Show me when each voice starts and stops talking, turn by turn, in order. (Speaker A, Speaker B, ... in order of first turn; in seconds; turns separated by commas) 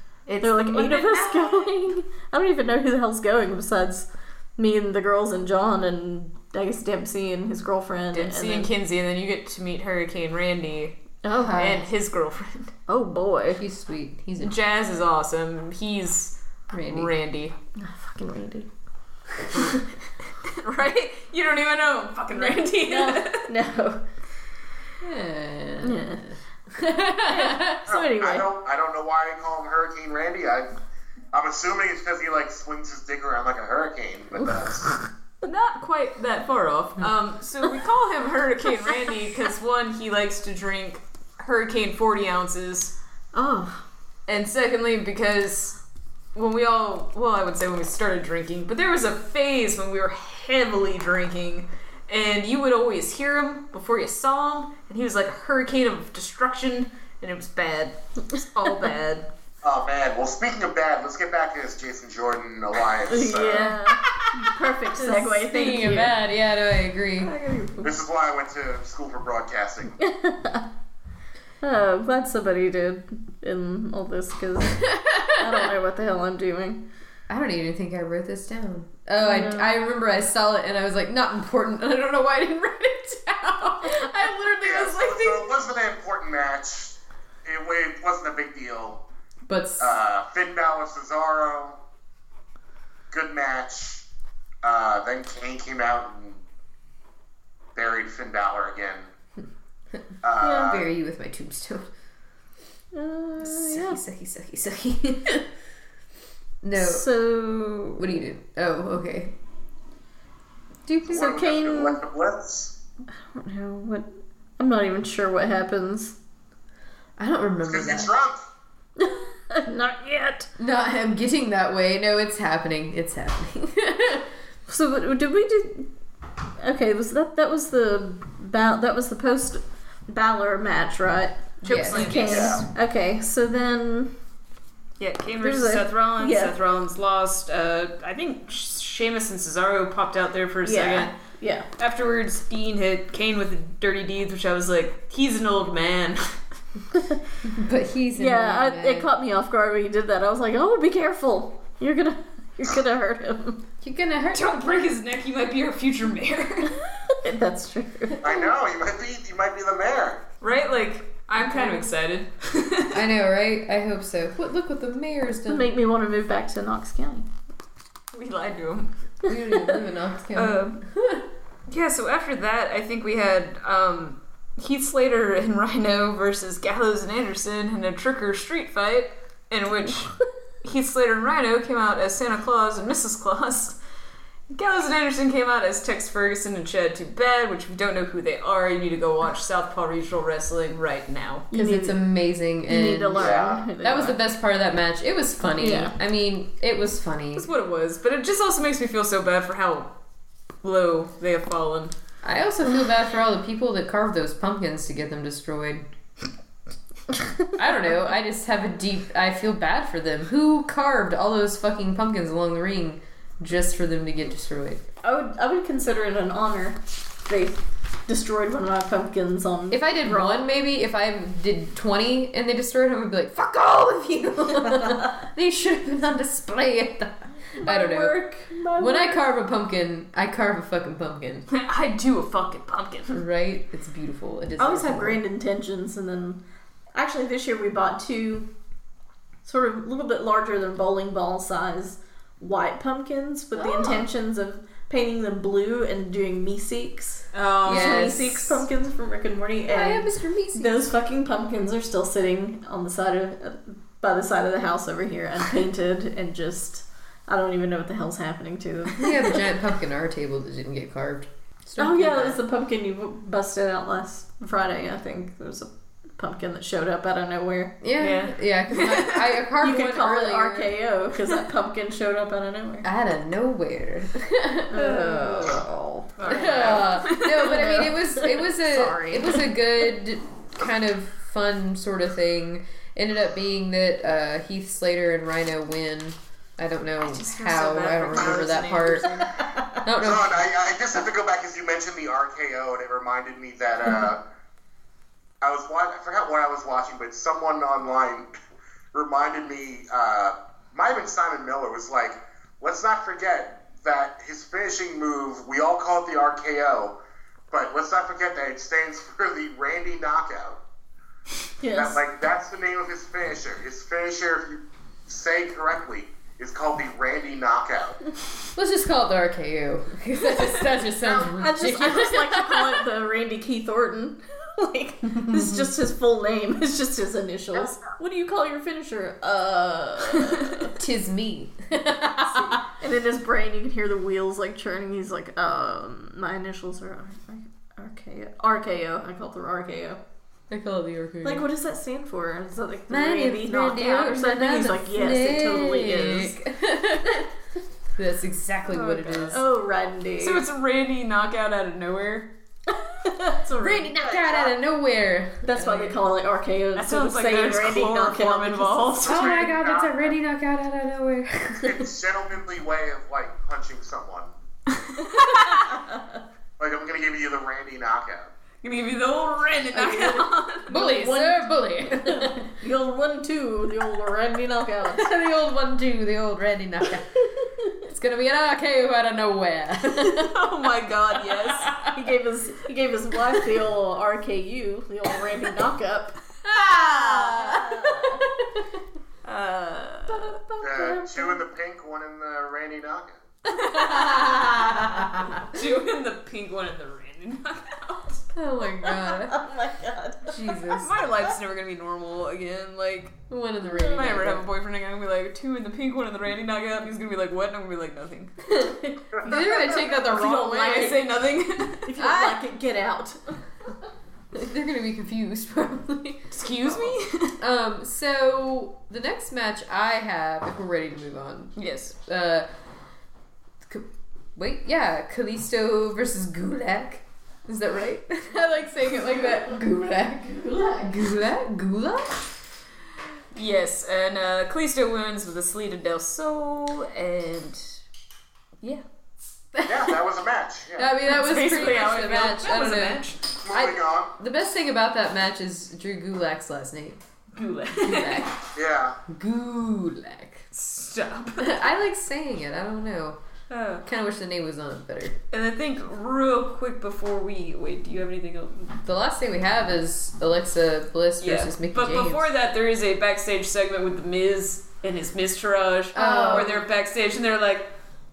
Speaker A: 0.3-1.8, Speaker B: 0.4-8.7, Speaker A: 8.1-12.7, Speaker B: 11.2-11.8, Speaker C: 11.4-11.9, Speaker B: 12.9-13.6, Speaker C: 13.5-14.6, Speaker A: 14.4-17.6, Speaker C: 16.7-17.1, Speaker B: 17.8-18.6, Speaker C: 18.2-18.7, Speaker A: 20.5-23.5, Speaker B: 22.3-24.0, Speaker C: 25.0-27.8, Speaker B: 25.8-26.2, Speaker B: 26.8-28.5, Speaker D: 27.9-30.7, Speaker D: 31.3-35.0, Speaker A: 35.4-43.0, Speaker B: 43.3-43.9, Speaker A: 44.3-45.8, Speaker A: 46.4-59.3, Speaker D: 59.6-63.7, Speaker B: 63.1-66.2, Speaker C: 64.9-67.3, Speaker A: 67.2-67.8, Speaker B: 67.4-67.9, Speaker D: 67.8-70.0, Speaker B: 70.0-70.7, Speaker B: 71.6-76.8, Speaker C: 74.9-75.5, Speaker C: 77.3-85.5, Speaker B: 79.2-79.7, Speaker D: 84.6-89.0, Speaker C: 89.5-90.0, Speaker D: 89.8-91.8, Speaker D: 93.1-94.0, Speaker D: 94.6-96.4, Speaker D: 97.8-99.1, Speaker D: 100.2-100.9, Speaker B: 100.4-100.8, Speaker C: 100.7-101.9, Speaker B: 102.9-104.0, Speaker C: 103.4-105.5, Speaker C: 106.6-107.1, Speaker B: 106.8-108.1, Speaker C: 108.0-109.3, Speaker C: 110.9-111.5, Speaker D: 111.1-112.8, Speaker B: 111.1-112.0, Speaker B: 113.1-116.2, Speaker C: 117.2-118.1, Speaker D: 117.6-118.5, Speaker B: 119.0-120.5, Speaker C: 120.6-124.3, Speaker B: 124.7-125.9, Speaker B: 126.6-134.1, Speaker A: 131.6-132.6, Speaker C: 131.6-132.3, Speaker D: 132.3-132.7, Speaker A: 135.0-141.1, Speaker B: 135.4-136.5, Speaker B: 140.6-141.7, Speaker A: 141.8-146.4, Speaker C: 147.4-149.1, Speaker B: 148.2-153.6, Speaker C: 153.8-154.6, Speaker A: 154.3-156.8, Speaker B: 157.1-158.5, Speaker D: 158.2-160.2, Speaker A: 160.4-163.0, Speaker C: 162.9-165.7, Speaker B: 165.5-167.3, Speaker A: 168.1-168.9, Speaker C: 169.2-171.3, Speaker A: 170.3-170.8, Speaker A: 171.7-183.8, Speaker A: 184.5-191.5, Speaker B: 191.5-192.1, Speaker C: 191.5-197.5, Speaker B: 192.7-194.2, Speaker D: 193.2-193.6, Speaker B: 195.6-195.9, Speaker A: 197.4-199.9, Speaker A: 200.6-201.9, Speaker C: 202.2-205.8, Speaker C: 207.5-214.8, Speaker B: 215.0-220.4, Speaker C: 219.7-228.2, Speaker B: 227.6-229.2, Speaker C: 228.8-231.5, Speaker A: 231.5-233.2, Speaker C: 233.1-235.2, Speaker B: 234.6-236.4, Speaker B: 236.9-238.5, Speaker B: 239.4-259.5, Speaker C: 243.6-244.0, Speaker A: 247.3-248.2, Speaker C: 247.7-248.6, Speaker C: 249.7-250.8, Speaker C: 258.9-262.4, Speaker B: 261.8-267.8, Speaker C: 267.8-270.8, Speaker A: 268.0-269.4, Speaker B: 269.6-272.9, Speaker C: 272.8-275.6, Speaker B: 274.7-276.9, Speaker A: 276.2-277.9, Speaker C: 276.3-289.3, Speaker B: 277.4-279.5, Speaker A: 287.0-289.4, Speaker B: 289.4-289.6, Speaker C: 289.8-290.5, Speaker D: 290.0-294.2, Speaker D: 295.4-298.3, Speaker D: 298.9-306.9, Speaker D: 307.5-310.6, Speaker B: 311.6-312.0, Speaker D: 311.7-318.0, Speaker C: 318.6-322.9, Speaker D: 321.0-322.1, Speaker B: 321.4-330.8, Speaker C: 325.2-325.7, Speaker C: 330.7-332.6, Speaker B: 332.3-340.0, Speaker C: 340.5-341.5, Speaker B: 341.2-346.4, Speaker C: 342.9-347.3, Speaker C: 348.0-349.4, Speaker A: 348.7-349.4, Speaker B: 349.3-350.4, Speaker A: 350.2-352.3, Speaker B: 352.8-354.0, Speaker C: 353.6-356.0, Speaker D: 354.0-354.5, Speaker B: 355.4-359.1, Speaker A: 356.8-359.4, Speaker D: 359.0-360.1, Speaker C: 359.1-361.9, Speaker D: 361.5-364.3, Speaker A: 364.8-365.7, Speaker B: 365.1-366.2, Speaker D: 366.6-368.3, Speaker A: 368.6-370.8, Speaker B: 369.7-375.1, Speaker C: 370.7-372.5, Speaker C: 374.9-380.3, Speaker A: 380.0-381.8, Speaker C: 381.4-381.9, Speaker B: 381.9-386.2, Speaker C: 386.4-388.6, Speaker B: 387.0-388.2, Speaker A: 389.2-390.3, Speaker B: 390.1-391.4, Speaker D: 390.6-393.2, Speaker C: 393.5-395.4, Speaker A: 393.7-394.1, Speaker A: 395.5-398.2, Speaker C: 398.3-399.4, Speaker B: 399.3-400.6, Speaker C: 400.3-400.9, Speaker A: 400.6-403.2, Speaker C: 403.3-404.4, Speaker B: 403.7-404.1, Speaker A: 403.9-408.3, Speaker C: 408.5-410.9, Speaker B: 409.2-411.1, Speaker A: 410.1-411.9, Speaker B: 411.9-413.3, Speaker C: 412.0-412.4, Speaker C: 414.3-422.5, Speaker A: 416.3-417.4, Speaker A: 421.6-421.9, Speaker C: 423.6-432.4, Speaker A: 433.3-437.8, Speaker C: 439.5-440.0, Speaker D: 439.7-440.9, Speaker C: 440.8-447.0, Speaker A: 441.0-443.2, Speaker D: 443.4-444.1, Speaker A: 447.4-448.4, Speaker C: 447.8-448.3, Speaker D: 448.6-449.0, Speaker C: 449.1-450.5, Speaker A: 450.5-451.7, Speaker C: 451.4-453.2, Speaker A: 453.5-453.9, Speaker C: 453.8-455.2, Speaker A: 455.3-458.8, Speaker C: 458.9-462.3, Speaker A: 461.2-467.8, Speaker C: 465.9-466.6